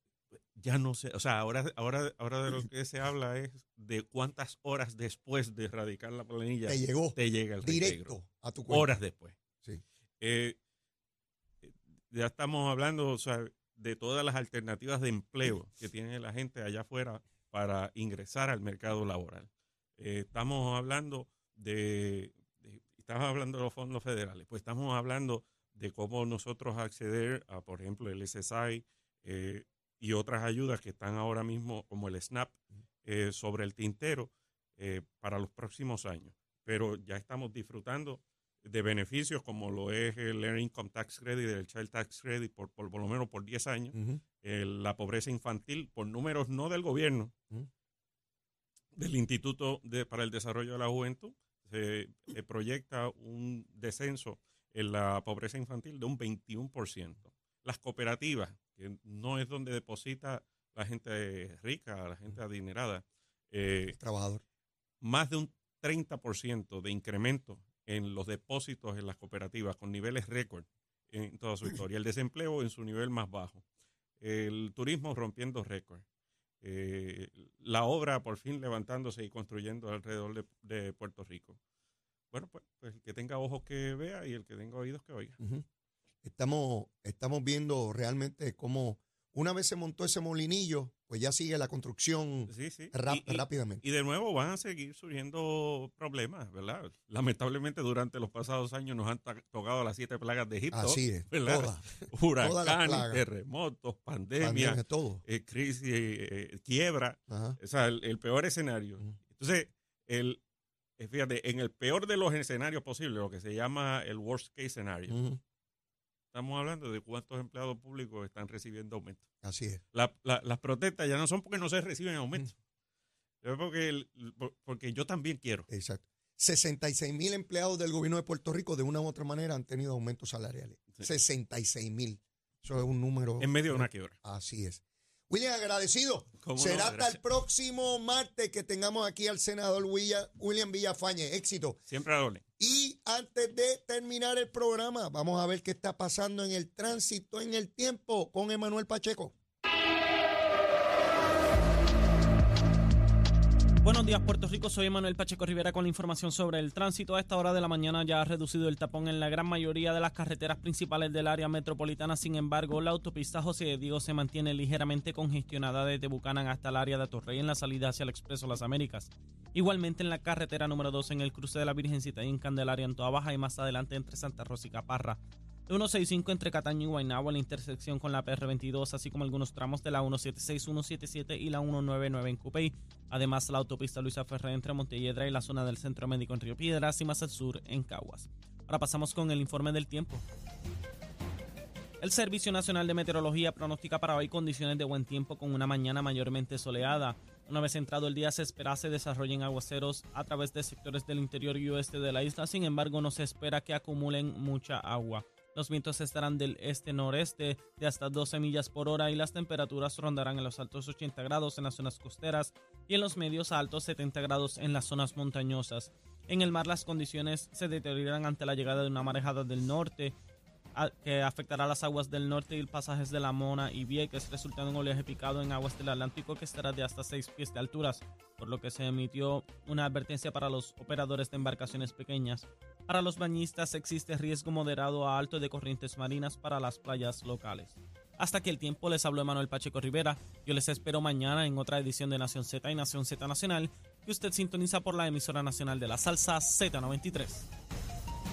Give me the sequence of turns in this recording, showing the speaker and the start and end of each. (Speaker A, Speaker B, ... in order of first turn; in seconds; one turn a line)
Speaker A: 0.6-9.4
Speaker B: 6.7-8.9
Speaker A: 10.2-10.6
Speaker A: 11.6-47.3
Speaker B: 43.9-44.2
Speaker A: 49.0-64.0
Speaker B: 63.9-64.4
Speaker A: 65.0-73.6
Speaker A: 74.2-76.0
Speaker A: 76.6-81.6
Speaker A: 82.3-85.4
Speaker B: 85.4-85.7
Speaker B: 86.2-93.8
Speaker A: 92.5-110.4
Speaker B: 100.7-103.2
Speaker B: 104.4-105.2
Speaker B: 107.3-107.6
Speaker A: 111.0-115.2
Speaker B: 115.1-115.4
Speaker A: 116.3-119.3
Speaker B: 119.4-119.8
Speaker A: 119.9-122.5
Speaker A: 123.4-125.7
Speaker B: 125.7-141.8
Speaker A: 133.4-134.2
Speaker A: 136.4-137.2
Speaker A: 141.9-142.4
Speaker B: 142.6-149.3
Speaker C: 153.8-190.2
Speaker C: 192.0-220.1
Speaker C: 220.7-247.5